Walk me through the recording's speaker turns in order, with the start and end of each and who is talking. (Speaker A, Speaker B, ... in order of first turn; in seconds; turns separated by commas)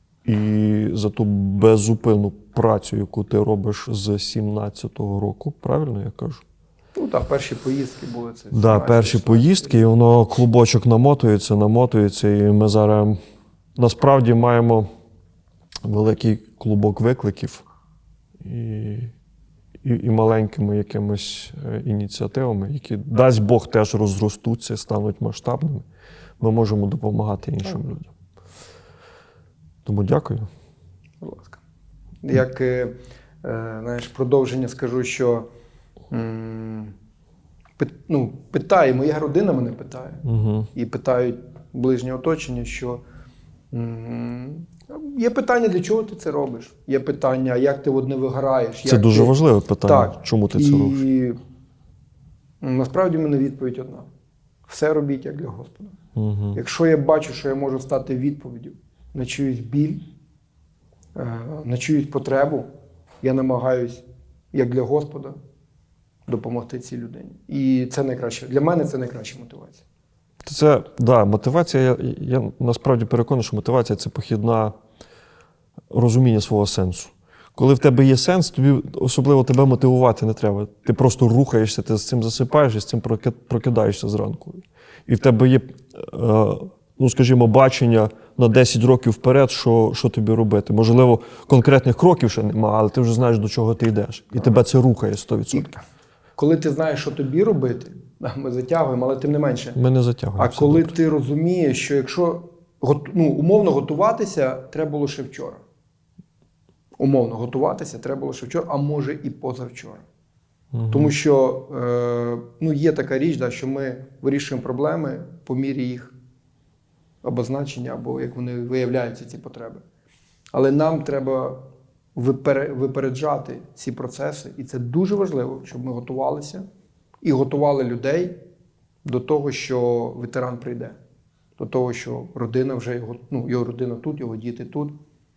Speaker A: 0.2-6.4, Speaker B: 6.9-9.9, Speaker A: 8.5-13.2, Speaker A: 13.8-14.9, Speaker A: 15.8-17.6, Speaker A: 18.4-19.1, Speaker A: 19.8-25.9, Speaker A: 26.4-28.1, Speaker A: 29.8-30.5, Speaker B: 31.2-31.6, Speaker B: 32.2-35.5, Speaker B: 36.1-36.9, Speaker B: 37.8-43.0, Speaker A: 40.2-40.7, Speaker B: 43.7-49.3, Speaker A: 48.8-51.1, Speaker B: 49.8-51.4, Speaker B: 52.6-54.1, Speaker B: 54.7-56.0, Speaker A: 56.1-56.6, Speaker B: 56.5-60.0, Speaker B: 61.1-62.7, Speaker B: 63.2-65.4, Speaker B: 66.3-69.8, Speaker A: 70.4-74.7, Speaker A: 75.9-95.7, Speaker B: 95.5-95.8, Speaker B: 96.4-99.8, Speaker A: 99.8-100.9, Speaker B: 100.4-105.6, Speaker B: 107.0-110.0, Speaker A: 110.7-111.1, Speaker B: 110.9-116.1, Speaker B: 117.2-119.8, Speaker B: 120.5-121.6, Speaker B: 122.1-126.6, Speaker B: 127.2-128.4, Speaker B: 129.0-131.0, Speaker B: 131.6-134.9